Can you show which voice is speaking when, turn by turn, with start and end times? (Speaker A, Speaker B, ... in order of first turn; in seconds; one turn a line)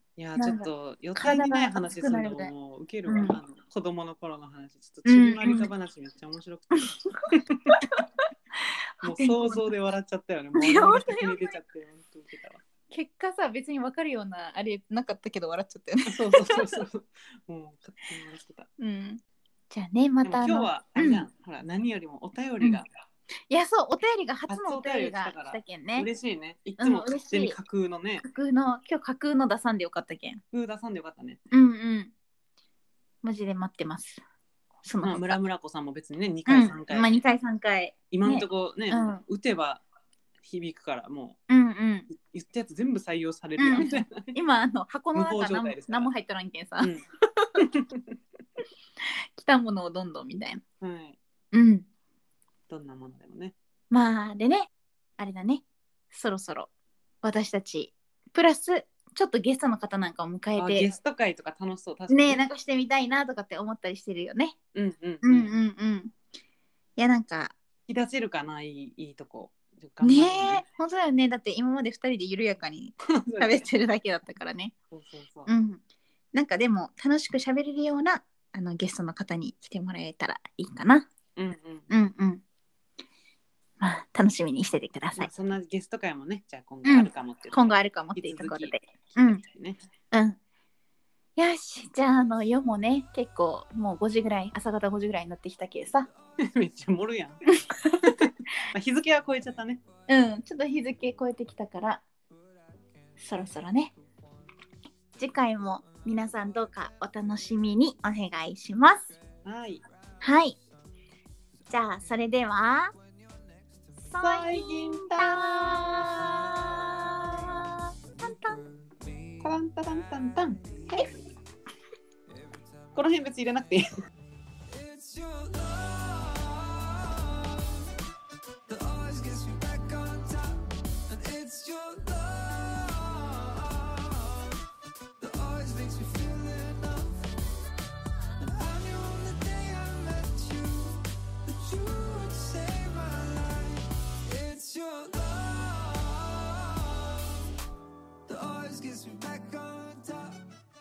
Speaker A: 0.2-7.6
Speaker B: 0.4-2.5
Speaker B: 3.1-3.4
Speaker B: 5.1-5.7
Speaker B: 6.8-8.0
Speaker B: 8.7-9.7
Speaker A: 9.0-12.6
Speaker B: 10.5-11.4
Speaker B: 12.9-16.9
Speaker A: 16.1-18.7
Speaker B: 18.8-21.3
Speaker A: 20.2-22.9
Speaker B: 23.5-26.1
Speaker A: 24.5-28.2
Speaker B: 26.8-27.6
Speaker B: 28.2-30.4
Speaker A: 30.5-31.4
Speaker B: 31.5-32.1
Speaker B: 33.2-34.2
Speaker B: 34.9-35.4
Speaker A: 35.0-37.1
Speaker B: 36.5-39.2
Speaker A: 38.1-39.8
Speaker A: 40.4-41.4
Speaker B: 41.5-42.1
Speaker A: 42.1-44.3
Speaker B: 43.6-46.9
Speaker A: 45.1-46.1
Speaker A: 47.6-48.1
Speaker B: 49.4-50.6
Speaker A: 50.8-51.2
Speaker B: 51.5-51.9
Speaker A: 52.7-53.5
Speaker B: 53.9-56.7
Speaker B: 57.2-60.9
Speaker A: 60.6-62.4
Speaker B: 62.1-64.6
Speaker A: 64.7-65.5
Speaker B: 65.2-66.1
Speaker B: 67.0-67.6
Speaker A: 67.9-70.6
Speaker B: 70.0-74.7
Speaker A: 73.1-73.7
Speaker A: 74.9-75.5
Speaker B: 75.5-75.8
Speaker B: 76.3-81.1
Speaker A: 81.4-81.9
Speaker B: 81.9-82.4
Speaker B: 83.8-85.3
Speaker A: 85.2-89.8
Speaker B: 86.8-89.4
Speaker B: 90.1-90.4
Speaker B: 91.4-96.1
Speaker A: 96.4-97.4
Speaker B: 97.7-98.0
Speaker A: 98.0-99.8
Speaker B: 100.1-102.0
Speaker B: 103.2-103.9
Speaker B: 105.2-109.2
Speaker A: 109.5-109.8
Speaker B: 110.2-110.6
Speaker B: 111.7-112.9
Speaker B: 114.0-118.6
Speaker A: 114.2-116.7
Speaker A: 119.4-121.0
Speaker A: 123.0-123.8
Speaker C: 124.7-127.8
Speaker C: 128.7-134.6
Speaker C: 135.2-137.2
Speaker C: 138.4-147.3
Speaker C: 148.3-150.4